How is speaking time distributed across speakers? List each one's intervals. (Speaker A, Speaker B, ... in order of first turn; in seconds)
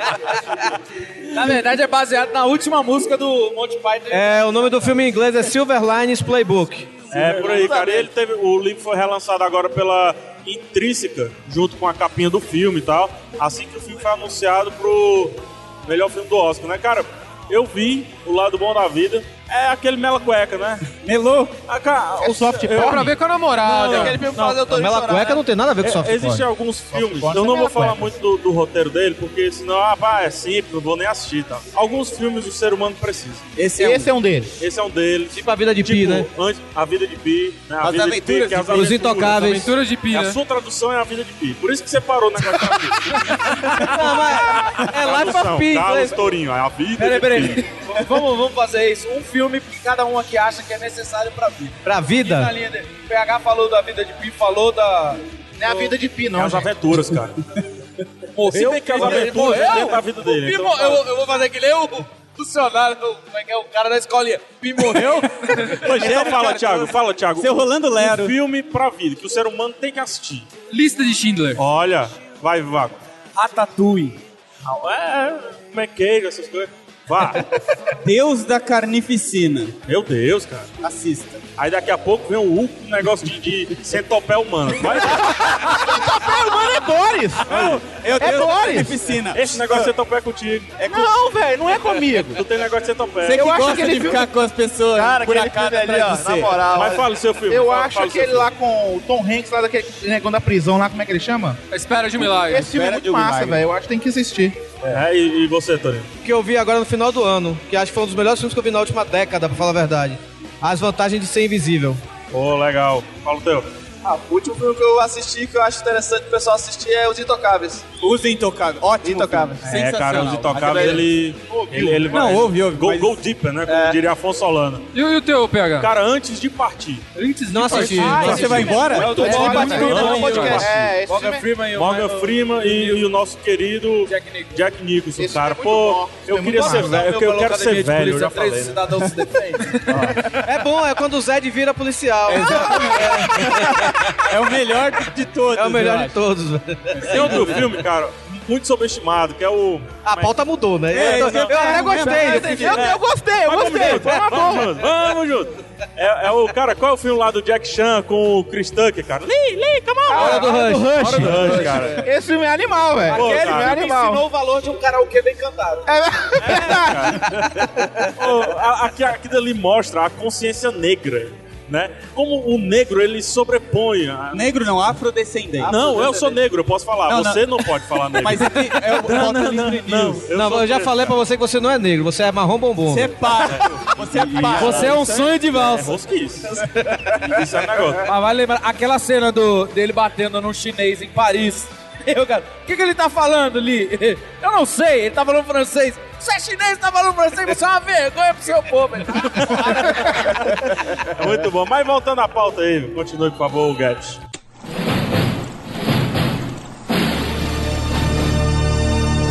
Speaker A: 1.3-5.0, 27.4-27.9, 47.0-55.9, 58.3-66.8, 73.3-74.2, 127.2-133.1, 134.1-134.6, 136.4-140.0, 160.2-162.1, 163.0-165.8, 184.5-186.0, 188.0-200.3
Speaker B: 4.1-6.9, 24.7-26.4, 35.3-36.3, 38.7-39.7, 43.7-46.2, 51.8-52.5, 106.2-112.0, 127.5-128.7, 140.3-143.9, 145.5-147.5, 150.0-152.8, 160.1-161.3, 180.3-183.1
Speaker C: 7.1-20.9, 21.7-24.6, 25.8-33.5, 34.6-47.7, 56.4-57.4, 58.5-61.0, 65.7-70.5, 71.6-73.0, 74.6-77.5, 79.9-80.7, 81.6-85.7, 87.5-87.9, 89.3-90.8, 92.3-93.6, 96.7-98.5, 104.9-106.1, 112.3-113.7, 119.7-124.8, 125.8-127.1, 127.9-130.9, 131.7-138.8, 139.9-140.2, 147.1-150.3, 151.1-151.8, 152.5-160.4, 161.1-162.1, 163.1-163.8, 166.4-174.6, 175.6-181.2, 183.4-186.7, 187.2-188.1, 200.1-204.2
Speaker D: 21.0-21.6, 33.6-34.1, 37.8-39.1, 65.9-68.3, 78.0-79.7, 80.8-81.4, 87.9-89.9, 90.8-91.2, 93.2-96.7, 102.5-103.6, 118.0-121.0, 122.0-123.2, 128.0-130.5, 142.3-146.2, 146.9-147.7, 150.9-152.8, 174.3-175.9, 177.1-180.2, 182.9-185.1
Speaker E: 22.2-23.1, 33.8-34.5, 55.6-56.7, 85.7-89.0, 90.9-92.4, 93.3-94.3, 97.5-101.6, 102.4-104.6, 121.5-122.0, 127.7-131.4, 135.2-137.1, 151.6-154.8, 160.1-164.2, 165.8-167.4
Speaker F: 22.7-24.3, 39.3-40.4, 70.7-71.6, 101.7-102.7, 124.9-125.9, 127.6-128.3, 129.1-130.6
Speaker G: 23.9-25.4, 94.9-97.1, 114.0-117.8, 119.0-119.8, 120.6-121.0, 129.1-130.7, 175.6-176.4